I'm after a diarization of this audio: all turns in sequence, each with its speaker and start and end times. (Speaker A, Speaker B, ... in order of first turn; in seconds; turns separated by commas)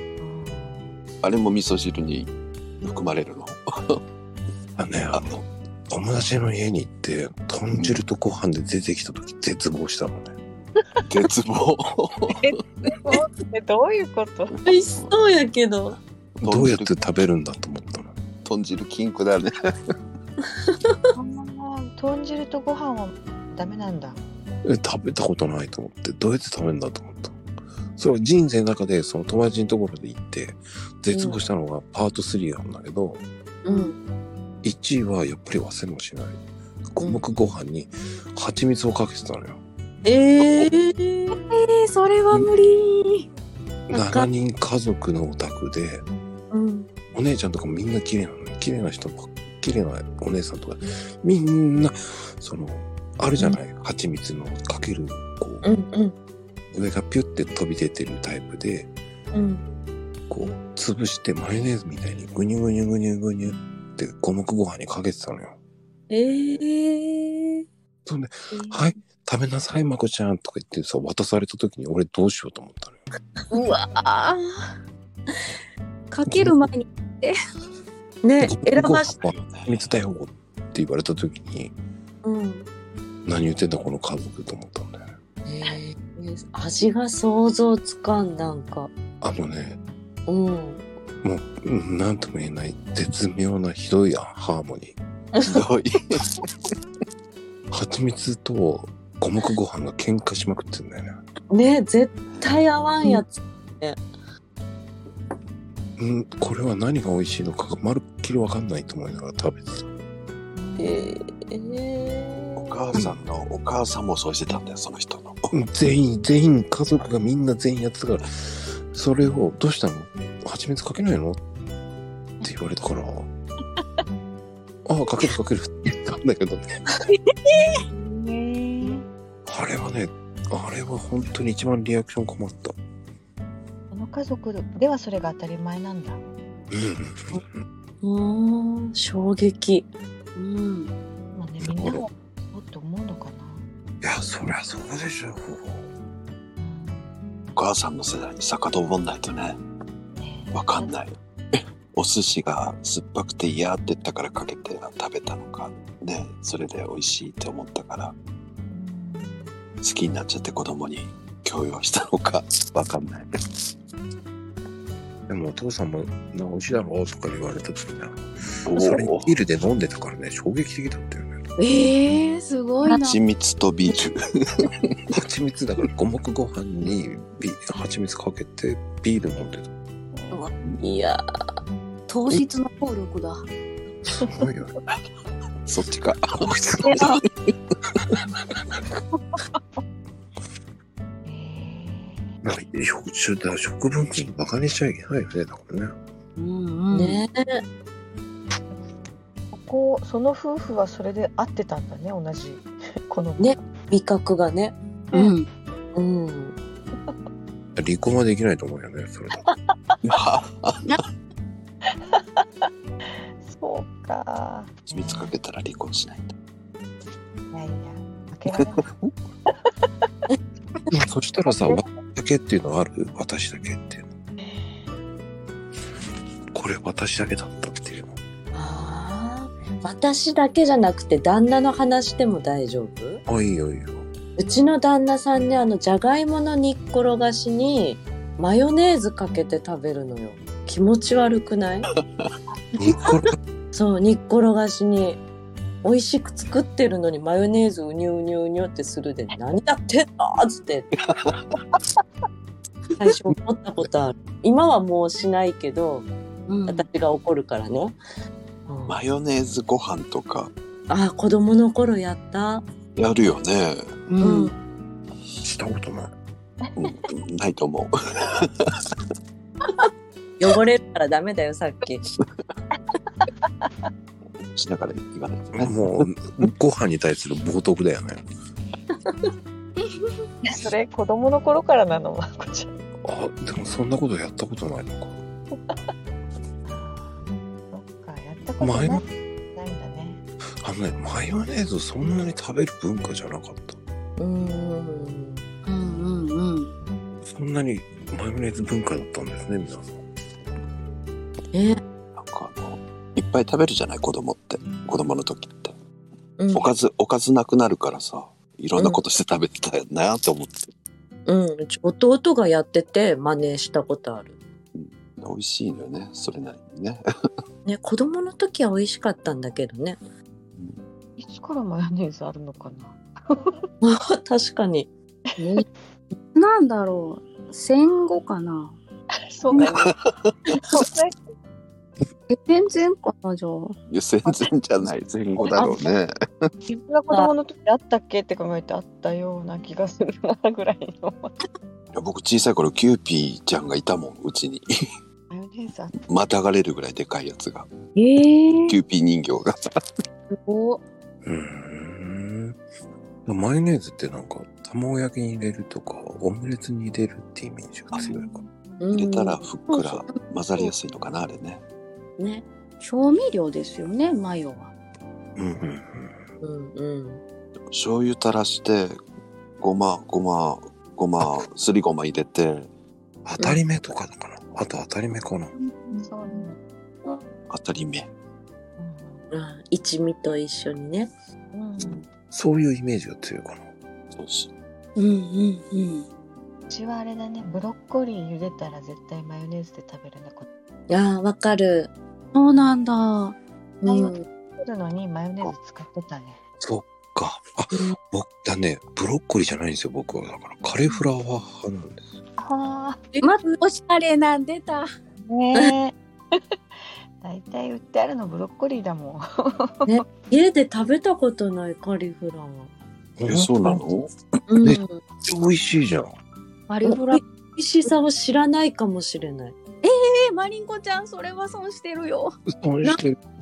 Speaker A: 0.2-0.9, Speaker B: 1.2-2.3, Speaker B: 2.8-4.0, Speaker C: 4.8-10.3, Speaker B: 7.7-8.0, Speaker B: 11.1-12.9, Speaker A: 12.3-14.6, Speaker B: 14.5-15.2, Speaker D: 14.6-16.0, Speaker B: 16.4-16.9, Speaker C: 16.4-18.1, Speaker B: 18.4-19.5, Speaker D: 20.7-21.0, Speaker A: 21.1-24.2, Speaker C: 24.6-27.4, Speaker C: 27.9-33.2, Speaker D: 31.1-31.4, Speaker D: 33.6-34.0, Speaker E: 33.7-33.9, Speaker C: 34.6-36.4, Speaker C: 36.9-39.6, Speaker D: 37.0-37.2, Speaker D: 40.0-41.4, Speaker E: 41.5-43.3, Speaker C: 43.9-46.0, Speaker D: 43.9-44.3, Speaker D: 46.5-46.9, Speaker C: 47.1-55.6, Speaker D: 55.6-56.1, Speaker C: 56.7-58.9, Speaker D: 59.3-59.6, Speaker C: 60.3-65.5, Speaker D: 66.1-67.6, Speaker C: 68.0-73.0, Speaker D: 73.5-73.9, Speaker E: 73.5-74.4, Speaker E: 76.1-77.3, Speaker C: 76.3-76.7, Speaker D: 78.2-79.1, Speaker C: 78.4-81.7, Speaker B: 79.1-80.0, Speaker D: 82.2-82.7, Speaker C: 83.2-85.0, Speaker D: 85.5-88.9, Speaker C: 89.2-89.8, Speaker D: 90.3-90.8, Speaker C: 91.2-95.0, Speaker D: 95.3-95.6, Speaker B: 95.4-96.4, Speaker C: 97.7-101.2, Speaker D: 101.5-104.0, Speaker C: 106.0-109.9, Speaker A: 110.5-111.1, Speaker D: 110.8-112.9, Speaker B: 112.5-115.5, Speaker C: 112.9-113.2, Speaker C: 115.5-121.4, Speaker C: 122.4-123.3, Speaker C: 124.8-126.8, Speaker E: 127.5-127.8, Speaker A: 127.6-129.0, Speaker C: 129.4-132.7, Speaker A: 133.9-136.2, Speaker C: 136.7-137.6, Speaker D: 138.0-139.9, Speaker E: 140.3-140.9, Speaker A: 141.3-143.6, Speaker C: 141.6-142.0, Speaker C: 144.0-145.8, Speaker A: 146.6-147.1, Speaker B: 147.5-149.6, Speaker A: 150.1-150.9, Speaker B: 150.5-158.1, Speaker A: 158.7-159.6, Speaker B: 159.8-163.3, Speaker C: 165.3-171.4, Speaker B: 168.7-169.3, Speaker E: 171.6-173.2, Speaker B: 172.8-175.0, Speaker C: 175.1-179.7, Speaker D: 180.8-181.2, Speaker E: 182.1-183.4, Speaker C: 184.1-184.8, Speaker B: 185.7-187.2, Speaker C: 186.4-187.1, Speaker E: 186.8-187.2, Speaker A: 191.2-192.3, Speaker C: 192.4-195.9, Speaker E: 196.4-197.2, Speaker D: 196.9-197.6, Speaker A: 199.5-203.6, Speaker D: 203.4-204.8, Speaker E: 205.1-205.5, Speaker D: 205.9-206.6, Speaker C: 207.8-209.4, Speaker B: 210.0-211.0, Speaker A: 213.4-215.3, Speaker B: 214.9-216.3, Speaker A: 217.5-218.9, Speaker B: 218.5-219.1, Speaker C: 220.9-224.1, Speaker A: 221.5-221.8, Speaker C: 226.5-228.2, Speaker D: 228.5-233.2, Speaker C: 233.2-234.1, Speaker D: 234.4-241.9, Speaker C: 242.8-243.3, Speaker D: 243.7-245.2, Speaker D: 245.8-250.9, Speaker B: 251.0-251.6, Speaker D: 253.0-256.1, Speaker E: 256.5-256.9, Speaker D: 256.7-258.0, Speaker D: 258.7-259.0, Speaker B: 258.9-260.5, Speaker D: 260.9-262.6, Speaker B: 262.9-263.9, Speaker E: 264.1-264.5, Speaker D: 264.2-264.5, Speaker C: 265.4-266.1, Speaker B: 266.8-268.9, Speaker D: 270.4-272.0, Speaker B: 274.2-276.1, Speaker C: 275.5-278.2, Speaker E: 279.9-280.1, Speaker A: 280.4-282.7, Speaker C: 283.0-285.2, Speaker A: 286.6-290.2, Speaker C: 288.6-289.0, Speaker C: 290.6-293.8, Speaker D: 294.2-295.4, Speaker E: 295.6-296.7, Speaker C: 297.2-300.0, Speaker D: 301.5-301.8, Speaker B: 302.1-305.7, Speaker D: 306.4-306.7, Speaker B: 306.5-310.7, Speaker D: 311.2-314.4, Speaker B: 314.7-317.0, Speaker D: 317.6-320.0, Speaker A: 321.2-323.6, Speaker D: 323.8-324.9, Speaker E: 326.3-328.8, Speaker A: 329.3-329.9, Speaker B: 329.6-330.4, Speaker A: 330.6-331.1, Speaker E: 332.3-333.8, Speaker B: 333.9-336.5, Speaker D: 335.6-335.8, Speaker A: 336.6-341.3, Speaker B: 341.9-344.7, Speaker A: 345.3-346.0, Speaker B: 346.1-347.7, Speaker E: 347.9-348.8, Speaker B: 348.7-349.6, Speaker E: 350.3-350.8, Speaker C: 351.2-352.6, Speaker C: 353.2-358.4, Speaker D: 358.8-360.0, Speaker B: 358.9-361.6, Speaker D: 362.2-362.4, Speaker E: 362.8-364.7, Speaker C: 365.4-366.2, Speaker D: 366.4-367.2, Speaker B: 367.7-369.0, Speaker B: 369.6-372.7, Speaker C: 373.2-375.5, Speaker A: 375.9-376.6, Speaker B: 377.5-378.1, Speaker A: 378.8-379.2, Speaker D: 379.3-381.1, Speaker A: 381.5-382.0, Speaker B: 381.8-382.0, Speaker C: 382.3-383.6, Speaker B: 384.1-384.5, Speaker E: 384.9-386.1, Speaker A: 386.7-390.5, Speaker D: 390.9-391.9, Speaker E: 392.3-394.1, Speaker D: 393.8-394.2, Speaker A: 394.6-396.4, Speaker C: 396.6-402.0, Speaker D: 397.7-398.0, Speaker A: 402.4-403.1, Speaker E: 403.2-404.9, Speaker A: 405.2-406.4, Speaker A: 407.2-410.0, Speaker D: 409.9-412.7, Speaker C: 413.2-413.8, Speaker B: 413.3-414.1, Speaker D: 414.5-415.0, Speaker C: 414.6-416.1, Speaker E: 416.7-417.2, Speaker D: 416.8-419.6, Speaker E: 419.8-422.4, Speaker C: 422.5-423.2